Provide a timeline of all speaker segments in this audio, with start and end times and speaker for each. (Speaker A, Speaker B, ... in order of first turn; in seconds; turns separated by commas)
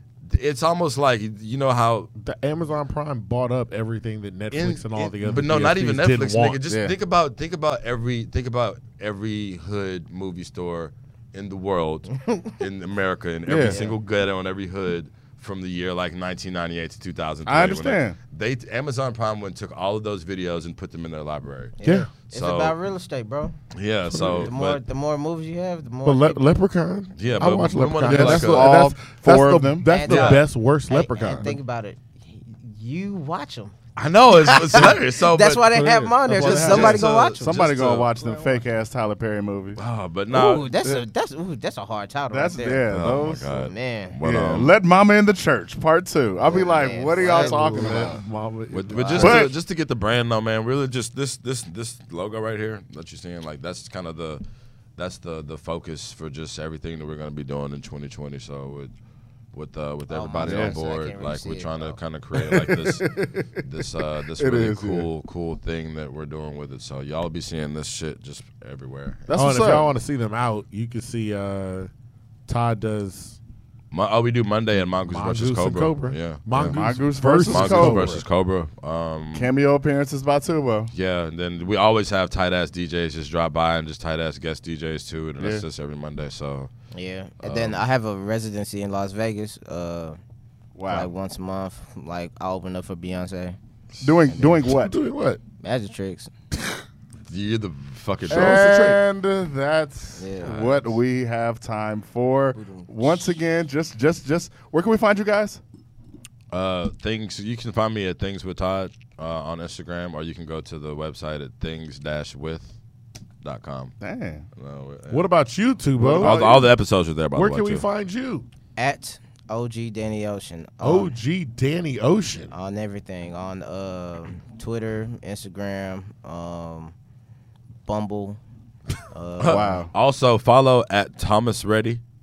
Speaker A: 0.2-2.1, Speaker B: 2.2-6.6, Speaker A: 4.5-21.8, Speaker C: 6.7-6.9, Speaker C: 13.5-13.8, Speaker D: 13.6-14.0, Speaker C: 17.4-18.1, Speaker D: 21.8-23.6, Speaker B: 21.8-22.1, Speaker A: 22.3-22.7, Speaker A: 23.7-24.8, Speaker C: 24.1-24.5, Speaker D: 24.2-26.4, Speaker B: 26.1-31.6, Speaker A: 27.2-28.8, Speaker C: 28.0-29.9, Speaker D: 29.8-33.8, Speaker A: 30.1-30.4, Speaker A: 34.0-38.1, Speaker D: 34.3-37.5, Speaker B: 35.8-36.9, Speaker C: 36.3-39.8, Speaker B: 38.2-38.5, Speaker A: 39.8-40.7, Speaker D: 40.3-44.2, Speaker C: 42.3-43.7, Speaker A: 42.9-44.8, Speaker C: 44.2-48.2, Speaker D: 46.4-48.1, Speaker B: 47.2-49.5, Speaker A: 48.7-54.4, Speaker C: 49.1-49.6, Speaker A: 55.0-58.9, Speaker A: 59.5-69.3, Speaker D: 60.1-62.0, Speaker C: 60.4-60.8, Speaker C: 62.4-63.6, Speaker C: 64.4-65.1, Speaker C: 69.3-69.9, Speaker B: 69.3-71.9, Speaker B: 72.5-73.4, Speaker A: 73.9-76.8, Speaker B: 75.1-78.2, Speaker C: 76.5-78.2, Speaker A: 77.4-79.5, Speaker C: 79.3-80.9, Speaker A: 80.9-86.7, Speaker C: 85.4-85.6, Speaker D: 86.9-90.2, Speaker A: 87.4-87.8, Speaker C: 90.7-91.1, Speaker D: 90.9-93.6, Speaker C: 94.0-95.0, Speaker D: 94.3-94.6, Speaker B: 94.6-95.4, Speaker D: 95.6-96.3, Speaker A: 97.3-99.0, Speaker C: 98.3-105.6, Speaker D: 100.2-100.7, Speaker A: 100.4-100.8, Speaker D: 102.5-103.2, Speaker A: 106.5-112.7, Speaker A: 113.4-113.9, Speaker C: 114.0-114.4, Speaker A: 114.6-115.3, Speaker B: 115.1-116.7, Speaker C: 116.0-116.6, Speaker A: 116.1-117.8, Speaker B: 117.3-118.5, Speaker D: 118.8-121.1, Speaker B: 120.8-122.5, Speaker D: 122.5-126.9, Speaker D: 127.9-128.4, Speaker D: 129.1-129.7, Speaker A: 129.4-132.0, Speaker C: 129.4-129.9